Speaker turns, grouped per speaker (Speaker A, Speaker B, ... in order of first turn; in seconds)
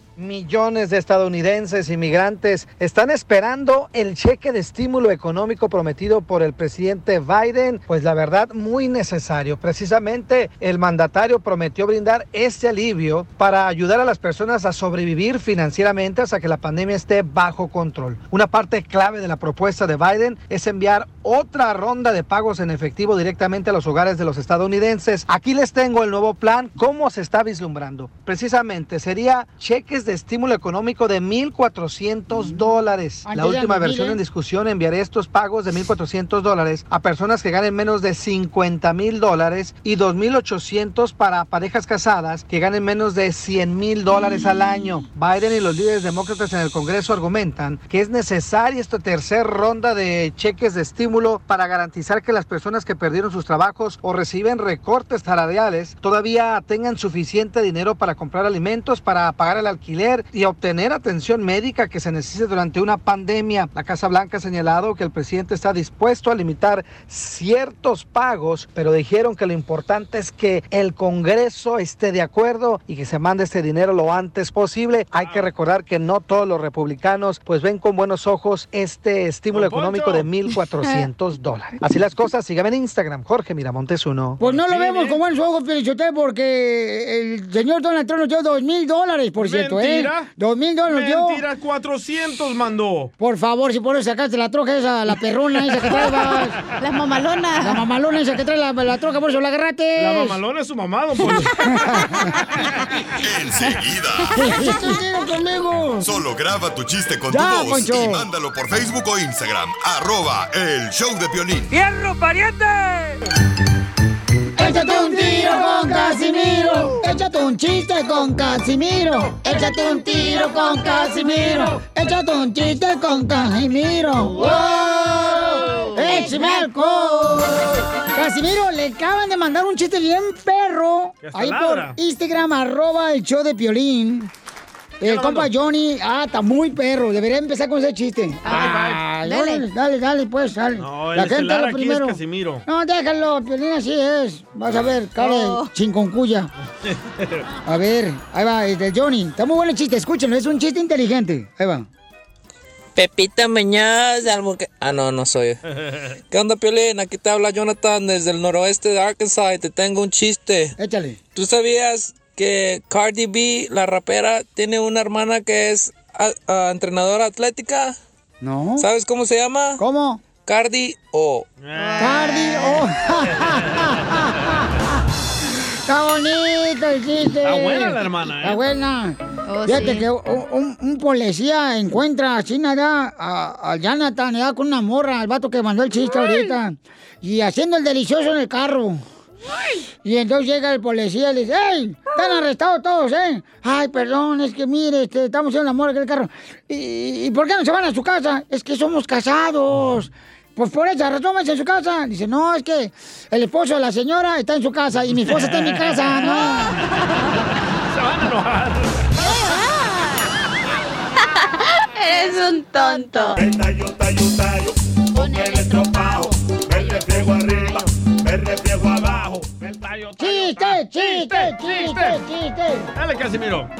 Speaker A: 0.2-84.4
Speaker B: 33.2-34.2, 84.4-91.4, 93.2-96.6, 97.6-100.4, 101.2-102.3, 104.3-106.1, 107.3-108.3, 114.6-127.5, 128.1-134.3, 135.0-146.5, 147.7-151.8, 160.8-161.2, 168.4-168.9, 169.8-170.2, 172.0-189.0, 190.0-206.8, 220.2-222.9
Speaker C: 75.1-75.5, 79.5-80.3, 84.4-85.2, 89.4-90.3, 90.9-93.1, 100.0-102.0, 125.2-126.0, 131.2-132.0, 135.0-135.5, 138.4-139.0, 140.8-142.6, 146.8-147.4, 171.6-172.6, 173.4-173.9, 177.4-178.6, 205.3-206.1, 207.9-209.3, 218.8-222.2, 222.9-223.7
Speaker D: 96.8-97.8, 115.1-116.0, 120.2-121.3, 124.4-127.7, 138.4-139.6, 145.2-145.7, 171.8-172.6, 179.5-180.1, 206.6-207.3, 209.2-210.3, 211.9-213.4, 215.1-217.9
Speaker E: 103.2-104.4, 106.0-111.7
Speaker F: 153.0-155.5, 156.3-160.6, 161.3-167.8, 168.8-169.7, 170.5-171.4